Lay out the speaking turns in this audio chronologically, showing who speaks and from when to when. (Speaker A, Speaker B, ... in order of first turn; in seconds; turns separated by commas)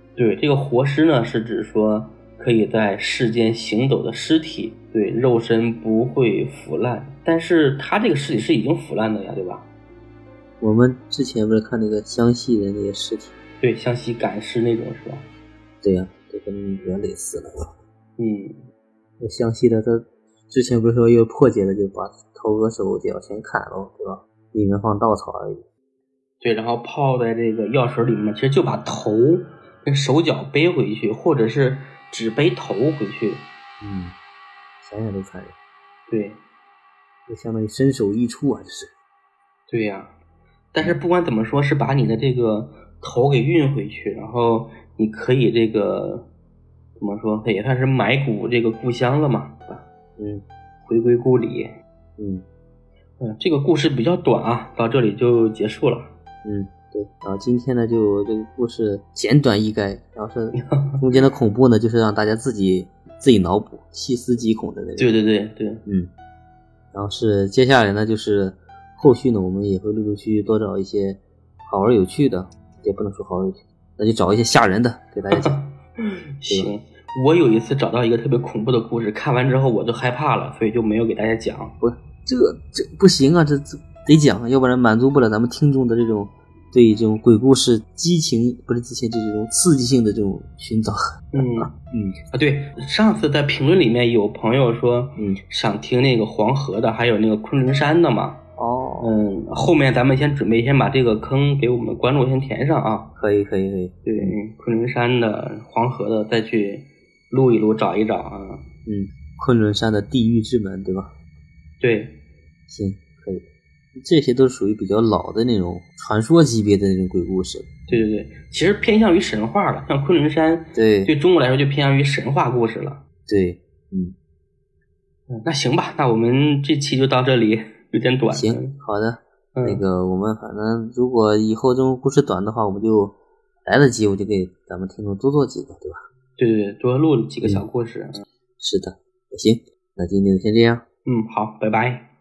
Speaker A: 0.2-9.7, Speaker B: 10.6-13.3, Speaker A: 13.6-15.3, Speaker B: 15.8-17.7, Speaker A: 18.2-18.6, Speaker B: 19.2-25.6, Speaker A: 26.4-33.5, Speaker B: 33.8-34.1, Speaker B: 34.8-35.5, Speaker A: 36.1-36.4, Speaker B: 37.3-38.9, Speaker A: 39.7-40.1, Speaker A: 40.7-46.3, Speaker A: 47.0-49.9, Speaker B: 50.2-50.4, Speaker A: 50.9-51.7, Speaker B: 52.2-52.4, Speaker A: 53.2-56.1, Speaker B: 56.5-65.2, Speaker A: 60.5-61.0, Speaker A: 65.0-65.8, Speaker B: 65.9-66.1, Speaker B: 66.9-75.6, Speaker A: 75.3-81.8, Speaker B: 81.8-92.2, Speaker A: 91.3-91.7, Speaker A: 92.3-98.4, Speaker B: 98.6-99.2, Speaker A: 99.0-103.1, Speaker B: 103.2-104.4, Speaker A: 104.0-108.7, Speaker B: 108.9-111.1, Speaker A: 111.8-112.2, Speaker B: 112.7-113.4, Speaker B: 114.0-118.0, Speaker A: 117.9-123.0, Speaker B: 120.7-121.1, Speaker B: 123.3-124.2, Speaker A: 125.3-128.8, Speaker B: 128.3-136.0, Speaker A: 129.6-129.8, Speaker A: 136.4-138.2, Speaker B: 138.6-140.8, Speaker A: 141.1-142.1